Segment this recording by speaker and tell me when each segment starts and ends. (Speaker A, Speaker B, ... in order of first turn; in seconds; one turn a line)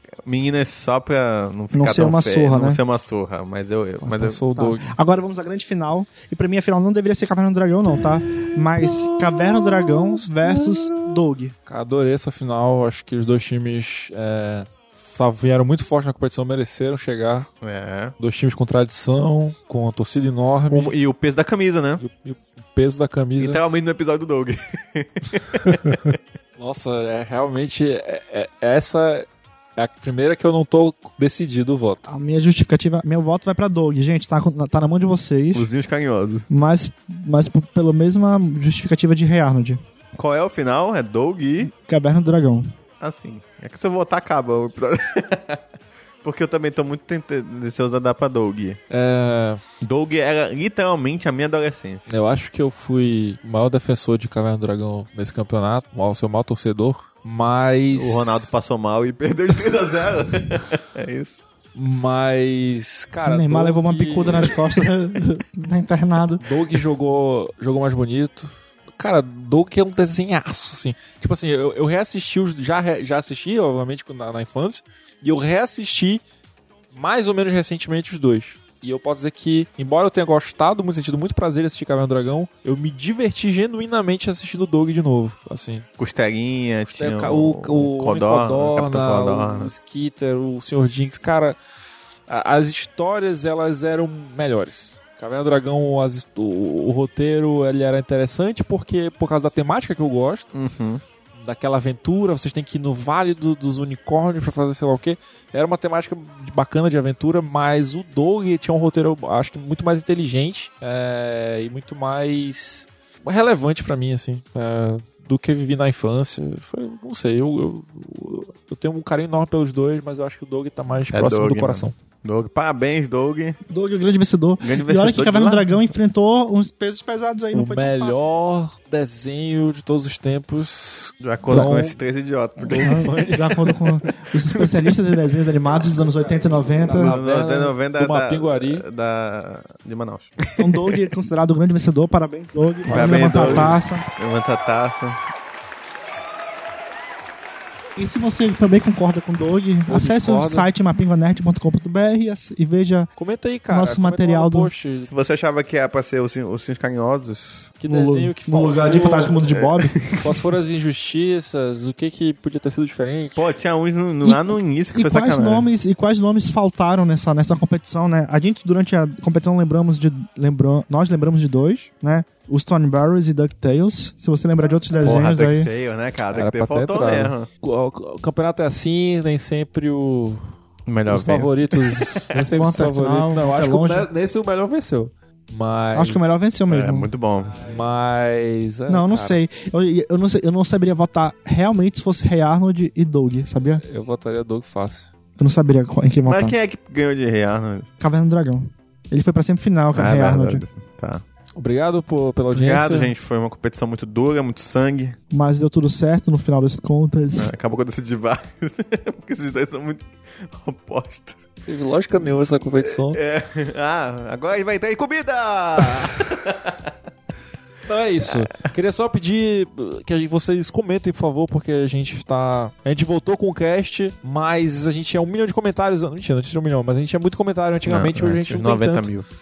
Speaker A: 0.2-4.4
Speaker B: 1.7-2.8
Speaker C: 4.0-5.0
Speaker B: 4.5-11.5
Speaker C: 11.7-17.5
Speaker A: 17.6-18.1
Speaker C: 18.2-21.0
Speaker A: 20.7-22.0
Speaker C: 22.0-23.6
Speaker A: 23.4-26.2
Speaker C: 26.6-32.1
Speaker B: 32.1-35.7
Speaker A: 35.5-36.5
Speaker B: 36.5-39.8
Speaker A: 40.1-41.7
Speaker B: 41.7-42.8
Speaker A: 43.0-45.6
Speaker A: 46.2-48.8
Speaker C: 48.9-49.6
Speaker A: 49.8-52.0
Speaker C: 52.1-58.5
Speaker A: 57.9-61.5
Speaker C: 61.8-64.6
Speaker B: 63.3-66.4
Speaker C: 66.4-76.2
Speaker C: 76.9-85.9
Speaker A: 86.0-89.7
Speaker C: 86.9-91.6
Speaker C: 92.3-100.5
Speaker A: 100.5-101.0
Speaker C: 101.3-122.0
Speaker A: 121.1-123.6
Speaker B: 123.7-128.2
Speaker A: 124.6-125.7
Speaker C: 127.5-132.0
Speaker A: 131.2-133.0
Speaker C: 132.6-133.8
Speaker B: 132.8-137.2
Speaker C: 136.8-138.9
Speaker A: 136.8-141.0
Speaker B: 140.6-144.1
Speaker A: 142.9-145.2
Speaker C: 142.9-143.8
Speaker B: 148.0-153.1
Speaker C: 149.9-150.7
Speaker C: 153.2-155.1
Speaker B: 153.7-154.7
Speaker A: 155.1-157.7
Speaker C: 157.8-159.4
Speaker B: 157.9-160.1
Speaker A: 159.5-160.2
Speaker C: 160.2-163.4
Speaker A: 163.4-165.7
Speaker B: 164.2-175.7
Speaker A: 174.9-177.5
Speaker C: 176.3-180.5
Speaker A: 180.9-182.6
Speaker C: 181.1-186.4
Speaker B: 182.6-184.1
Speaker B: 185.9-187.1
Speaker A: 186.7-187.7
Speaker C: 187.6-189.4
Speaker B: 188.9-193.8
Speaker C: 193.8-195.1
Speaker B: 195.4-196.6
Speaker A: 196.3-197.9
Speaker B: 198.0-200.6
Speaker A: 199.9-201.2
Speaker C: 201.6-203.1
Speaker A: 202.5-205.2
Speaker B: 205.3-207.5
Speaker A: 207.4-211.5
Speaker C: 211.7-213.2
Speaker A: 212.8-216.9
Speaker C: 217.9-229.1
Speaker A: 227.9-229.2